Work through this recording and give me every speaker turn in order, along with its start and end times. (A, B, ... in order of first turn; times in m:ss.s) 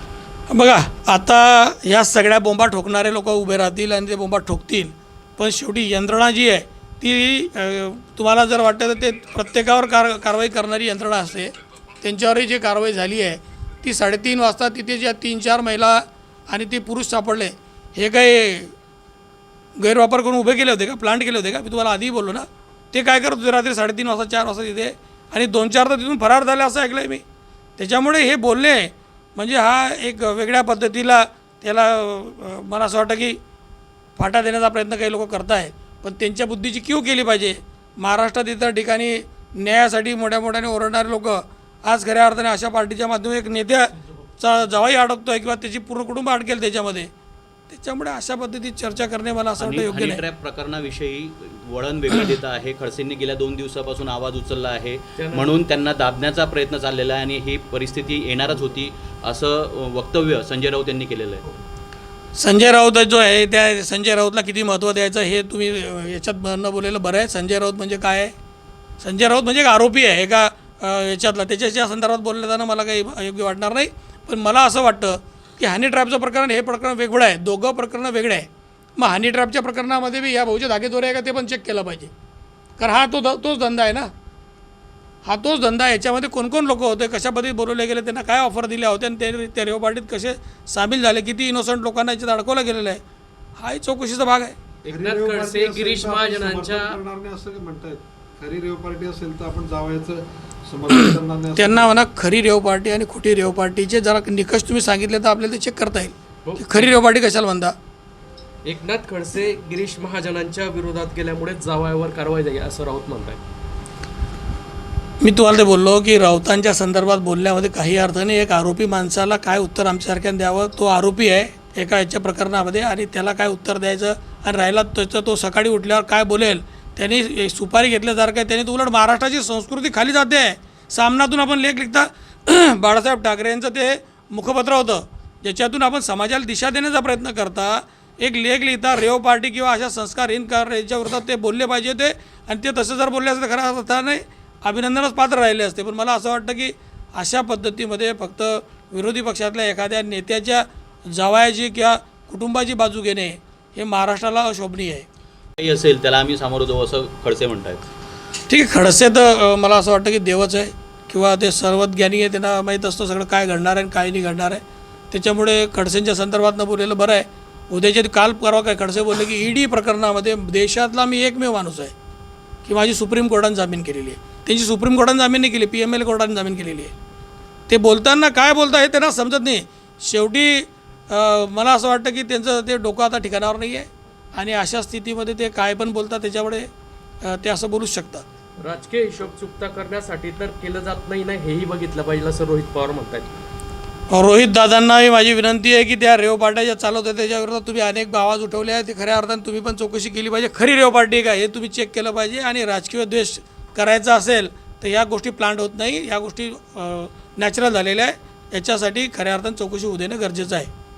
0:00.5-0:18.7 A
0:19.8-0:27.2 A
0:27.8-0:33.4 A
0:34.2-0:47.1 A
0:47.7-0:50.2 A
0:49.6-1:01.4 B
0:55.2-0:55.6 C
1:02.4-1:08.3 A
1:09.0-1:22.1 A
1:22.8-1:24.1 A
1:25.2-1:33.0 A
1:33.6-1:34.6 A
1:34.8-1:42.0 D
1:34.9-1:37.0 C
1:40.9-1:47.8 A
1:46.4-1:47.0 C
1:48.6-1:53.4 C
1:55.2-2:35.0 A
2:35.6-2:37.9 B
2:38.5-2:51.9 A
2:52.6-2:56.9 A
2:57.7-3:06.7 A
3:07.2-3:08.2 A
3:08.6-3:13.3 C
3:14.1-3:30.7 A